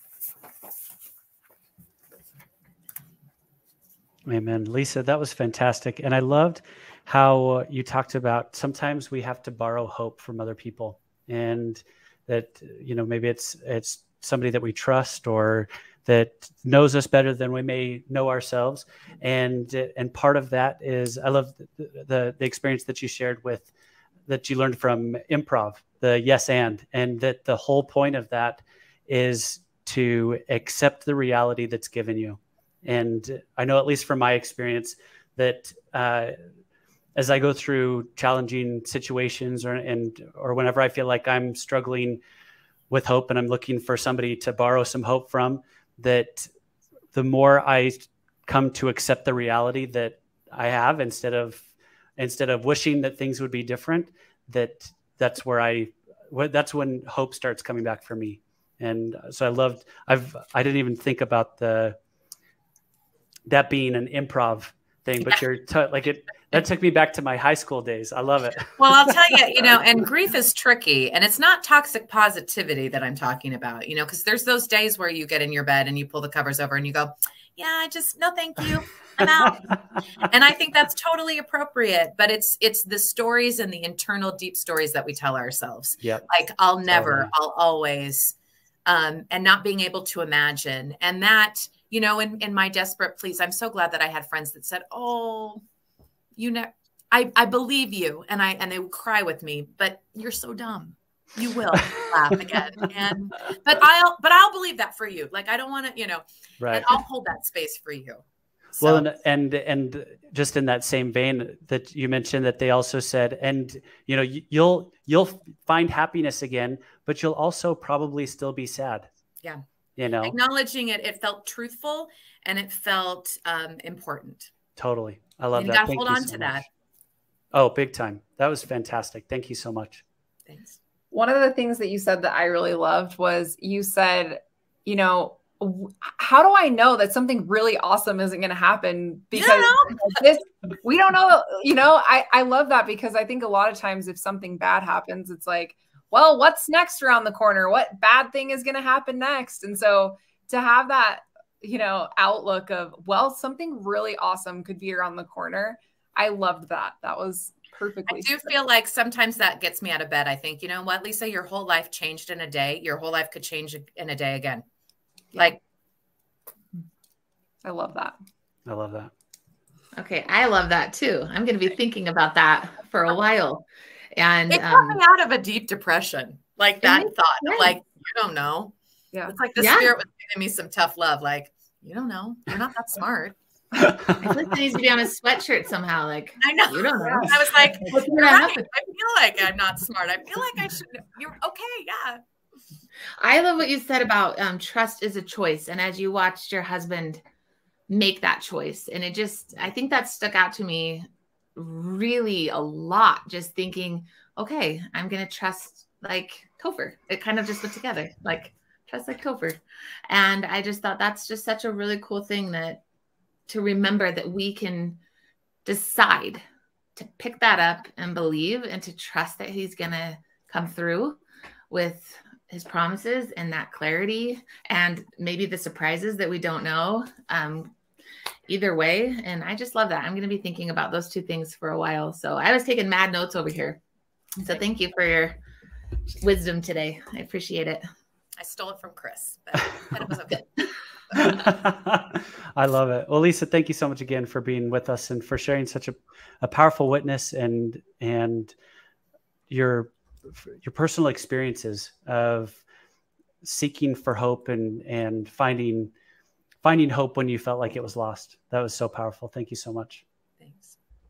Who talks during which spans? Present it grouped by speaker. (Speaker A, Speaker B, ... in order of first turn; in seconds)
Speaker A: 4.3-23.7, 24.3-36.4, 37.1-42.2, 42.9-46.5, 47.1-62.0, 63.5-69.2, 86.9-87.3, 106.6-107.0, 108.8-119.1, 120.0-120.3, 124.8-126.6, 127.5-130.0, 168.7-169.1, 183.8-184.4, 241.1-248.6, 249.5-252.6, 253.4-255.9, 256.6-260.0
Speaker B: 68.8-95.6, 96.3-108.2, 108.8-109.1, 120.2-124.5, 125.5-126.7, 130.5-130.8, 139.3-140.2, 158.1-164.7, 174.5-178.7, 179.3-183.3, 186.4-192.2, 238.4-241.5, 260.4-260.7
Speaker C: 131.1-158.6, 167.6-168.1
Speaker D: 170.0-173.6, 174.1-175.0, 176.8-177.7, 179.6-179.9, 184.2-188.6, 193.2-197.2, 197.9-212.8, 213.5-215.0, 215.6-216.4, 216.9-221.2, 221.7-227.7, 228.5-233.8, 234.4-235.4, 236.2-237.8